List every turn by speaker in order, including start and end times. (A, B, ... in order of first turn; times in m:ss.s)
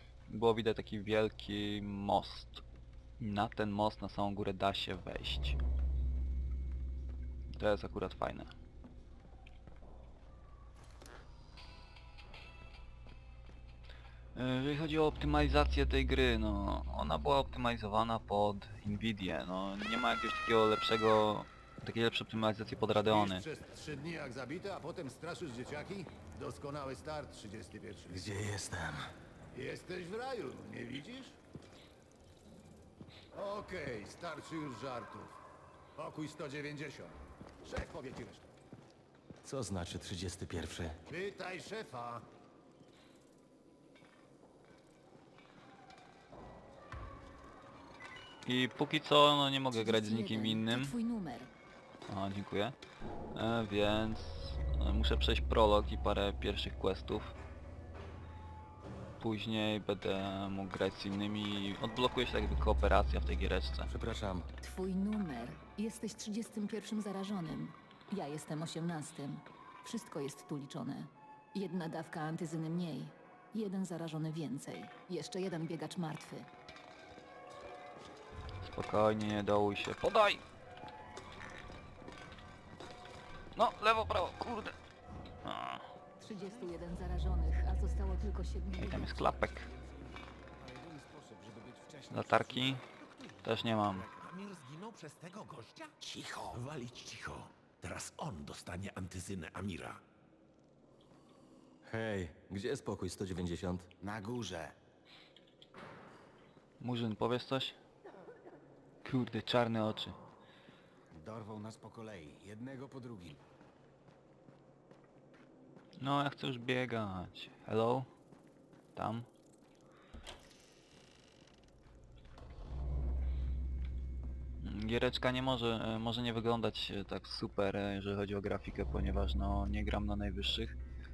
0:00.3-0:02.6 A
0:03.2-0:05.6 A
0:07.5-0:08.5 A
0:14.3-0:23.4 A
0:22.9-0:28.2 B
0:28.1-0:29.0 C
0:29.5-0:31.4 B
0:33.3-0:35.4 B
0:36.0-0:38.5 B
0:39.4-0:41.0 C
0:41.1-0:42.2 B
0:48.4-0:50.9 A
0:49.7-0:51.5 D
0:52.1-0:52.8 A
0:53.3-0:57.3 A
0:59.2-1:03.9 A
1:03.9-1:04.5 C
1:04.6-1:16.5 D
1:18.6-1:20.4 A
1:23.6-1:24.8 A
1:25.4-1:25.9 A
1:26.2-1:29.5 D
1:28.7-1:29.7 A
1:30.6-1:32.8 B
1:32.1-1:32.8 A
1:33.0-1:33.4 E
1:33.4-1:34.0 A
1:33.9-1:34.2 B
1:34.2-1:40.0 E
1:41.8-1:43.9 C
1:44.0-1:44.7 F
1:46.8-1:47.8 A
1:49.0-1:50.2 A
1:51.1-1:53.4 F
1:56.0-1:58.1 A
1:58.9-1:59.3 A
2:04.6-2:10.8 A